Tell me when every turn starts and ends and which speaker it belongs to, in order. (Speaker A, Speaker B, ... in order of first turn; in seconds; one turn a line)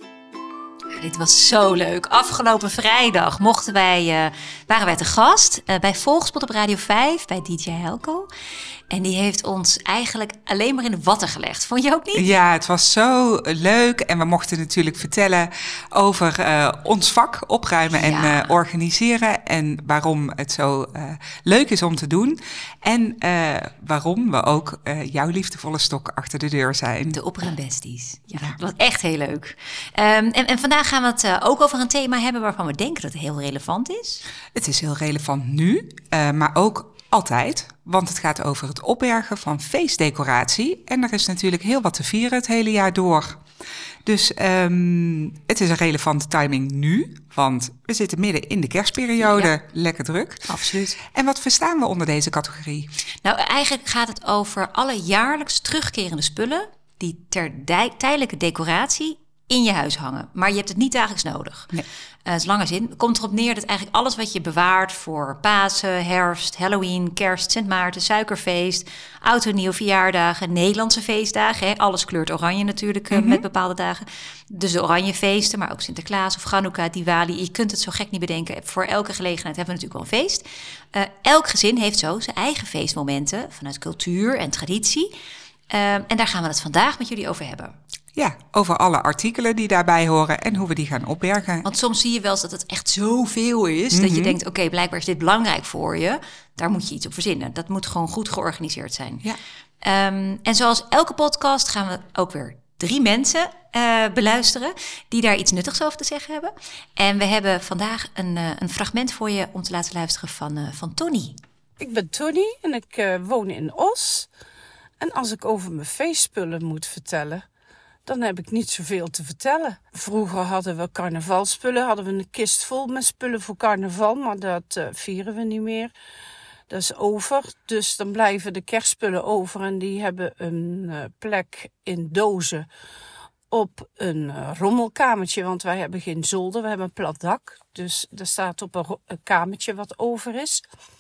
Speaker A: 0.9-8.3
Speaker A: 8.9-12.3
Speaker B: 12.2-27.2
Speaker A: 17.9-18.5
Speaker A: 27.1-34.2
Speaker B: 34.5-43.4
Speaker B: 44.0-52.9
Speaker A: 49.2-49.5
Speaker A: 50.5-51.0
Speaker A: 53.2-61.7
Speaker A: 62.3-85.1
Speaker B: 73.1-73.4
Speaker A: 85.7-87.8
Speaker B: 88.2-91.7
Speaker A: 91.6-99.2
Speaker B: 93.9-94.4
Speaker A: 99.8-111.4
Speaker C: 111.8-114.3
Speaker C: 115.0-117.4
Speaker C: 118.0-125.9
Speaker C: 126.7-132.7
Speaker C: 133.5-140.7